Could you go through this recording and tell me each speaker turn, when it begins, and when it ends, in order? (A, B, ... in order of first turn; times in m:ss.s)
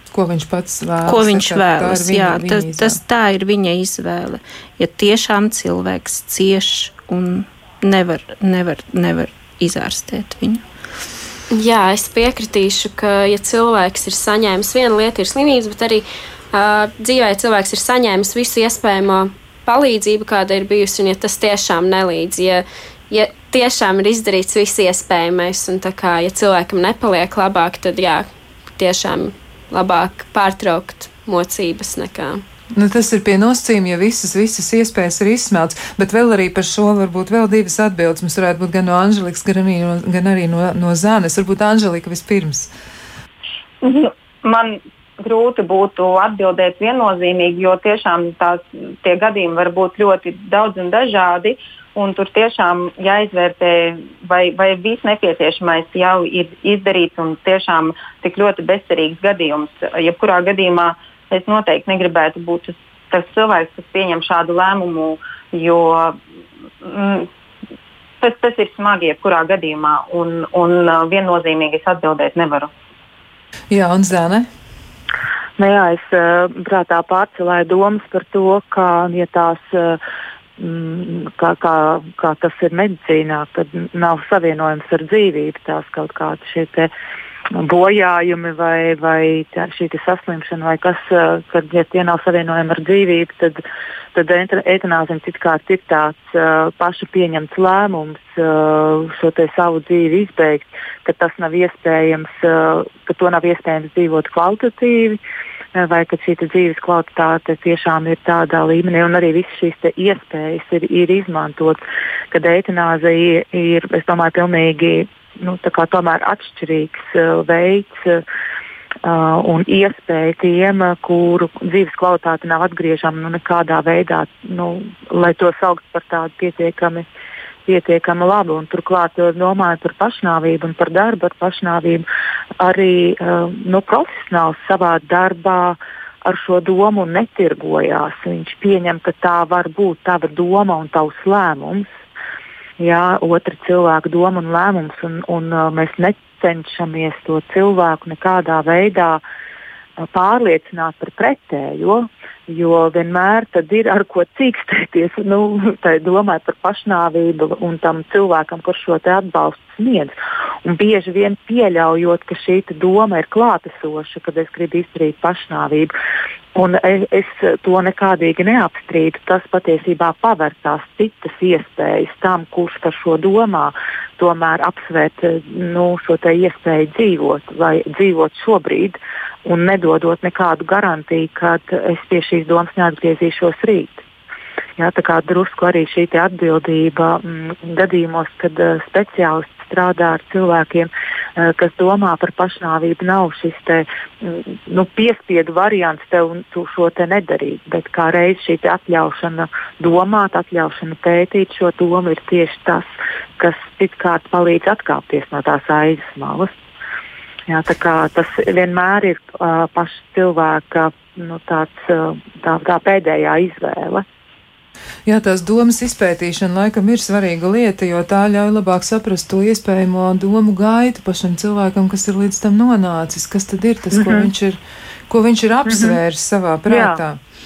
0:00.1-0:03.0 A
0:01.1-0:10.6 B
0:11.5-0:32.4 C
0:32.7-0:42.7 A
0:43.8-1:06.2 D
1:06.8-1:07.3 D
1:08.2-1:12.7 D
1:13.7-1:14.5 A
1:15.6-1:20.0 E
1:20.6-1:26.9 E
1:27.6-1:33.6 E
1:34.1-1:45.2 E
1:45.7-1:51.8 E
1:52.3-1:58.2 E
1:59.0-2:07.0 E
2:07.7-2:12.0 E
2:12.6-2:21.8 E
2:22.8-2:29.2 E
2:30.0-2:40.1 E
2:40.6-2:45.9 E
2:46.5-3:04.0 E
3:04.8-3:22.8 E
3:23.4-3:26.5 E
3:27.5-3:34.0 E
3:35.0-3:47.2 A
3:43.9-3:44.3 E
3:45.7-3:46.0 E
3:46.7-3:47.0 E